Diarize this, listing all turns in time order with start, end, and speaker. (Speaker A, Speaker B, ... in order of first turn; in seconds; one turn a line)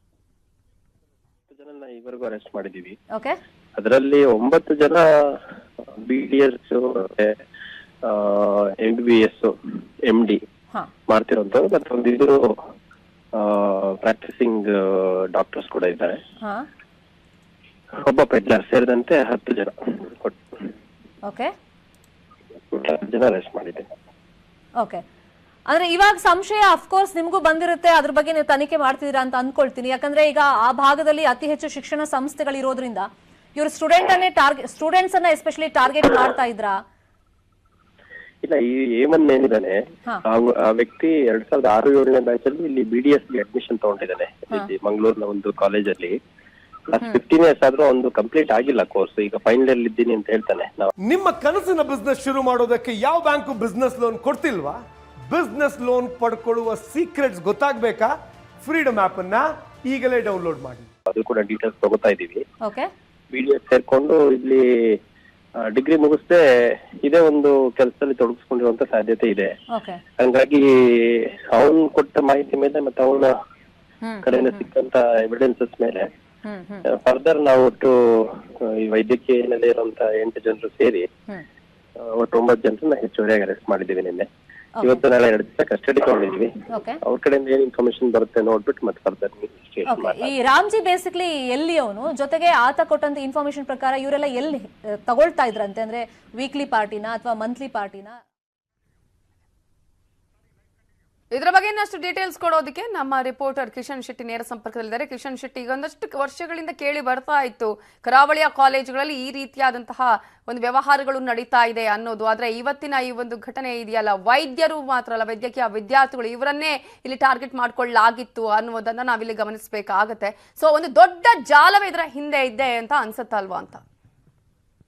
Speaker A: 1.5-3.0
Speaker A: 3.8-5.3
Speaker A: 6.0-7.3
Speaker A: 8.0-9.5
Speaker A: 10.0-10.4
Speaker A: 11.1-12.5
Speaker A: 13.3-16.2
Speaker B: 16.4-16.7
Speaker A: 18.0-20.4
Speaker B: 21.3-21.5
Speaker A: 22.7-23.9
Speaker B: 25.7-36.8
Speaker A: 38.4-46.2
Speaker A: 46.9-50.9
Speaker C: 51.0-60.9
Speaker A: 61.1-62.4
Speaker B: 62.6-62.9
Speaker A: 63.3-65.0
Speaker A: 65.6-69.5
Speaker B: 69.7-70.0
Speaker A: 70.2-73.3
Speaker B: 74.0-74.6
Speaker A: 74.2-76.1
Speaker B: 76.4-76.8
Speaker A: 76.9-81.1
Speaker A: 82.0-84.3
Speaker B: 84.8-85.0
Speaker A: 84.8-86.5
Speaker B: 86.7-87.0
Speaker A: 87.0-90.3
Speaker B: 89.9-98.2
Speaker D: 101.3-123.8